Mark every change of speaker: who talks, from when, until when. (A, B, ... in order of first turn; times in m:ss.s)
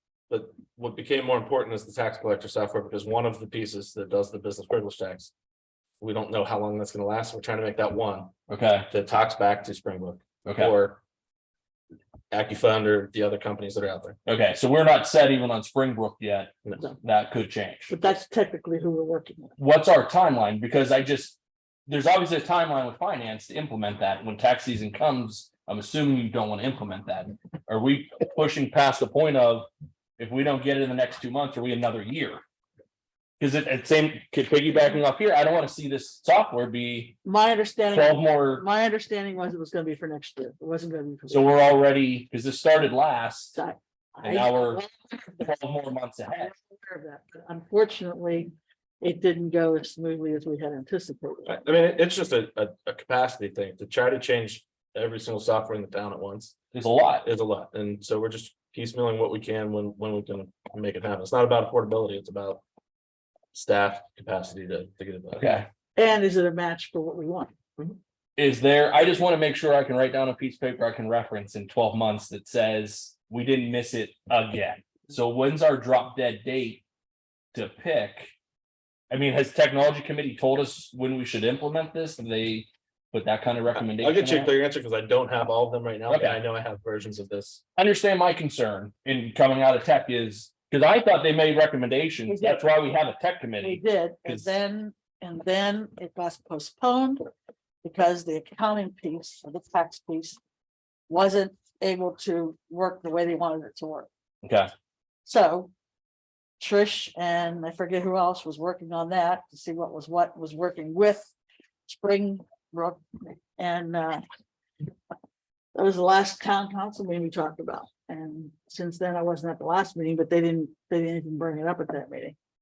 0:00.3-0:05.3 A
0:06.0-0:08.3 A
0:08.5-0:08.9 B
0:08.9-0:11.0 A
0:10.4-0:10.7 B
0:12.3-0:14.2 A
0:14.2-0:18.2 B
0:17.9-0:19.6 C
0:19.6-0:32.4 B
0:33.4-0:37.2 B
0:37.2-0:41.6 C
0:37.9-0:38.7 B
0:41.3-0:43.6 B
0:43.6-0:45.5 C
0:44.2-0:44.8 B
0:45.4-0:46.5 B
0:46.3-0:51.5 C
0:51.5-0:56.6 A
0:56.7-0:57.3 B
0:57.2-1:02.6 A
1:03.5-1:05.4 A
1:05.3-1:05.7 B
1:06.0-1:07.5 C
1:08.4-1:16.8 B
1:17.5-1:18.3 B
1:19.1-1:24.5 B
1:23.7-1:27.6 A
1:26.1-1:26.4 B
1:27.8-1:34.6 B
1:32.2-1:32.6 C
1:33.6-1:37.2 C
1:37.8-1:40.4 C
1:41.1-1:44.1 C
1:44.4-1:44.7 B
1:45.2-1:45.7 C
1:46.6-1:51.3 C
1:51.9-1:54.2 C
1:55.7-2:02.4 C